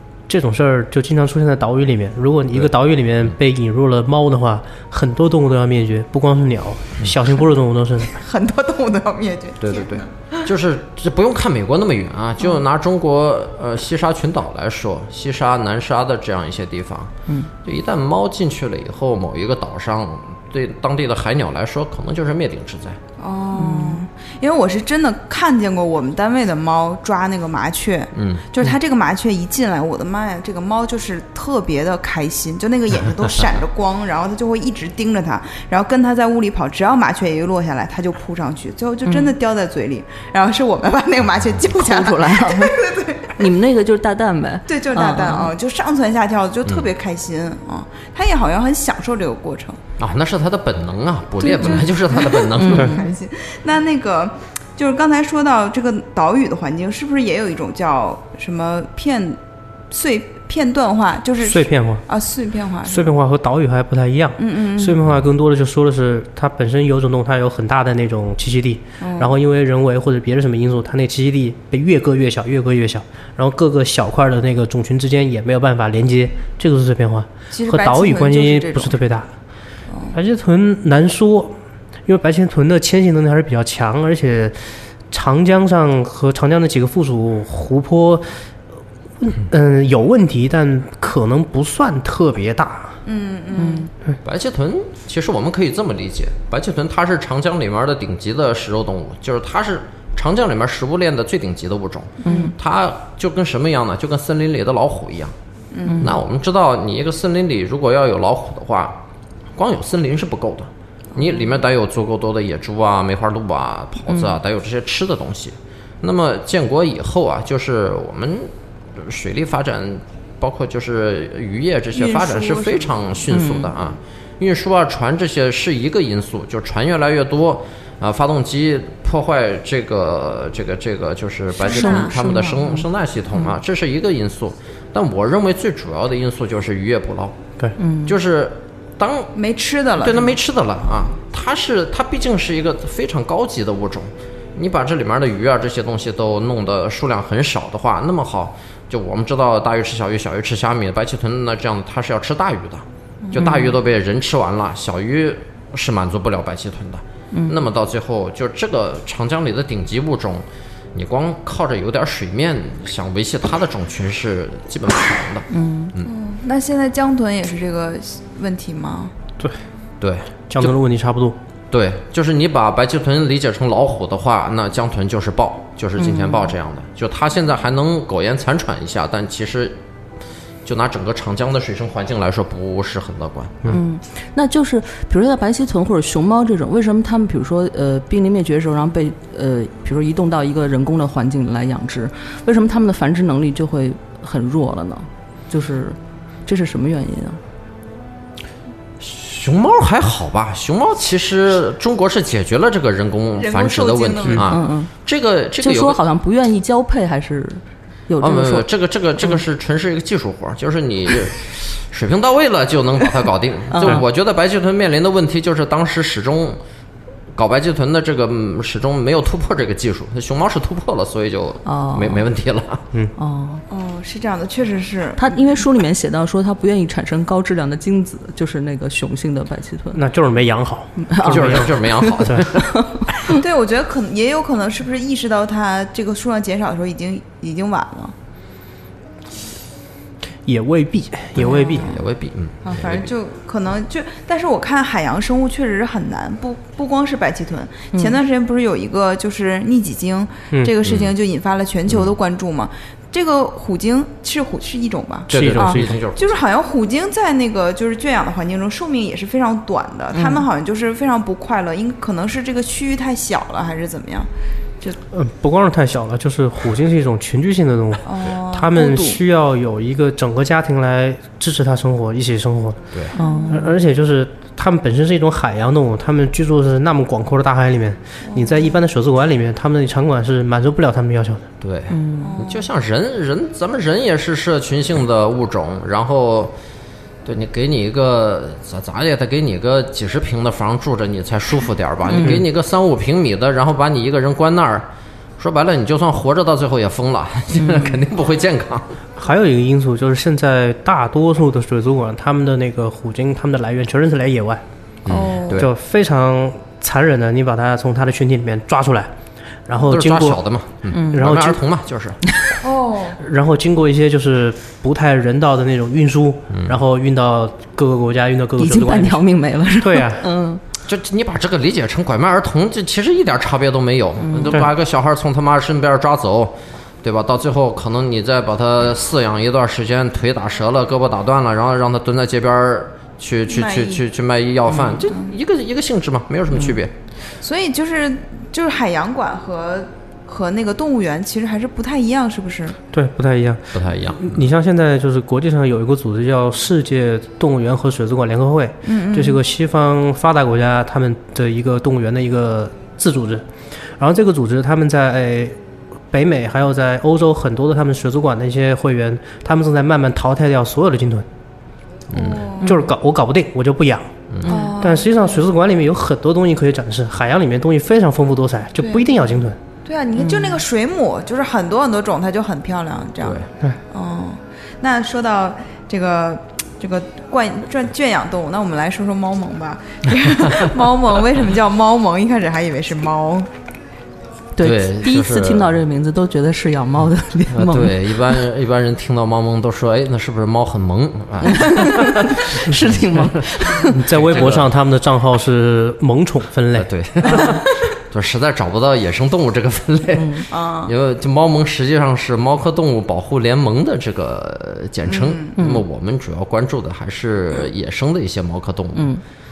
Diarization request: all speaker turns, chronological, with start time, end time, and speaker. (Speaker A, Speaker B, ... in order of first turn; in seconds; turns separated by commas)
Speaker A: 0.3-8.1, Speaker B: 8.1-10.5, Speaker C: 9.6-17.1, Speaker C: 17.6-23.0, Speaker B: 23.2-43.4, Speaker D: 23.6-24.0, Speaker C: 28.1-28.6, Speaker C: 33.2-33.5, Speaker D: 39.0-39.3, Speaker D: 41.7-42.7, Speaker D: 43.4-45.5, Speaker B: 44.7-49.8, Speaker C: 46.6-46.9, Speaker C: 50.0-53.0, Speaker B: 51.4-59.4, Speaker D: 52.5-53.0, Speaker B: 59.9-63.1, Speaker A: 61.4-62.0, Speaker A: 62.9-79.3, Speaker B: 64.4-65.0, Speaker B: 69.0-69.4, Speaker B: 77.5-79.0, Speaker A: 80.1-84.6, Speaker A: 85.1-88.3, Speaker A: 89.2-93.0, Speaker B: 93.0-93.9, Speaker D: 93.5-93.9, Speaker C: 94.2-105.3, Speaker D: 102.2-102.5, Speaker B: 102.2-102.5, Speaker B: 105.7-106.1, Speaker D: 105.8-106.2, Speaker C: 106.0-109.0, Speaker C: 109.6-137.4, Speaker D: 114.1-114.3, Speaker B: 121.9-122.9, Speaker D: 123.3-123.7, Speaker B: 131.5-132.7, Speaker D: 131.7-132.7, Speaker D: 137.8-138.2, Speaker C: 138.1-139.3, Speaker B: 139.3-140.4, Speaker C: 140.0-166.1, Speaker D: 153.3-153.8, Speaker D: 157.3-157.6, Speaker D: 165.5-165.9, Speaker B: 166.0-169.1, Speaker C: 170.0-170.7, Speaker A: 170.5-171.4, Speaker C: 171.7-179.8, Speaker D: 176.0-176.5, Speaker C: 180.6-183.8, Speaker D: 183.7-197.4, Speaker C: 199.0-206.0, Speaker B: 203.4-204.4, Speaker D: 204.4-204.9, Speaker D: 205.6-208.7, Speaker C: 208.2-216.6, Speaker D: 213.7-214.0, Speaker C: 217.3-222.8, Speaker D: 221.6-222.2, Speaker D: 223.2-223.6, Speaker B: 223.7-225.3, Speaker D: 225.2-230.0, Speaker A: 229.9-231.7, Speaker D: 231.0-233.4, Speaker C: 231.2-232.7, Speaker B: 233.2-238.1, Speaker A: 240.4-241.9, Speaker C: 241.3-243.1, Speaker B: 241.4-242.0, Speaker B: 242.6-265.0, Speaker C: 250.8-251.1, Speaker C: 251.9-252.1, Speaker C: 255.3-256.4, Speaker A: 255.3-255.9, Speaker D: 260.1-260.4, Speaker A: 265.1-272.9, Speaker B: 268.0-269.2, Speaker B: 273.1-273.6, Speaker D: 273.1-273.7, Speaker A: 273.5-281.4, Speaker B: 278.3-278.7, Speaker C: 281.6-286.5, Speaker D: 281.9-282.4, Speaker B: 282.2-282.7, Speaker C: 287.2-294.9, Speaker D: 292.1-292.4, Speaker C: 295.4-298.9, Speaker D: 297.6-298.0, Speaker A: 299.2-309.1, Speaker C: 305.0-305.7, Speaker B: 305.1-305.6, Speaker A: 309.7-310.4, Speaker C: 309.9-312.2, Speaker D: 310.9-311.3, Speaker A: 311.1-311.6, Speaker D: 312.3-312.6, Speaker B: 312.6-313.2, Speaker A: 313.2-319.2, Speaker C: 316.5-316.8, Speaker D: 318.6-320.6, Speaker A: 319.8-320.2, Speaker C: 320.9-336.9, Speaker D: 324.2-324.6, Speaker B: 333.5-334.0, Speaker D: 334.7-335.1, Speaker B: 335.1-335.3, Speaker D: 336.5-336.8, Speaker B: 337.4-342.8, Speaker A: 342.9-353.5, Speaker C: 343.7-344.4, Speaker B: 348.8-349.4, Speaker A: 354.0-355.6, Speaker A: 356.1-361.2, Speaker C: 362.1-362.5, Speaker B: 362.1-362.7, Speaker A: 362.6-369.6, Speaker C: 364.3-364.6, Speaker B: 364.4-365.4, Speaker D: 364.4-364.8, Speaker B: 368.8-369.2, Speaker B: 369.8-383.5, Speaker D: 370.1-370.6, Speaker C: 373.2-373.5, Speaker D: 384.6-388.3, Speaker C: 384.6-385.8, Speaker C: 387.5-394.7, Speaker D: 391.4-393.9, Speaker A: 393.9-396.9, Speaker C: 396.8-409.1, Speaker D: 400.1-400.4, Speaker B: 400.5-400.9, Speaker B: 405.1-405.6, Speaker D: 405.6-405.8, Speaker D: 408.9-409.2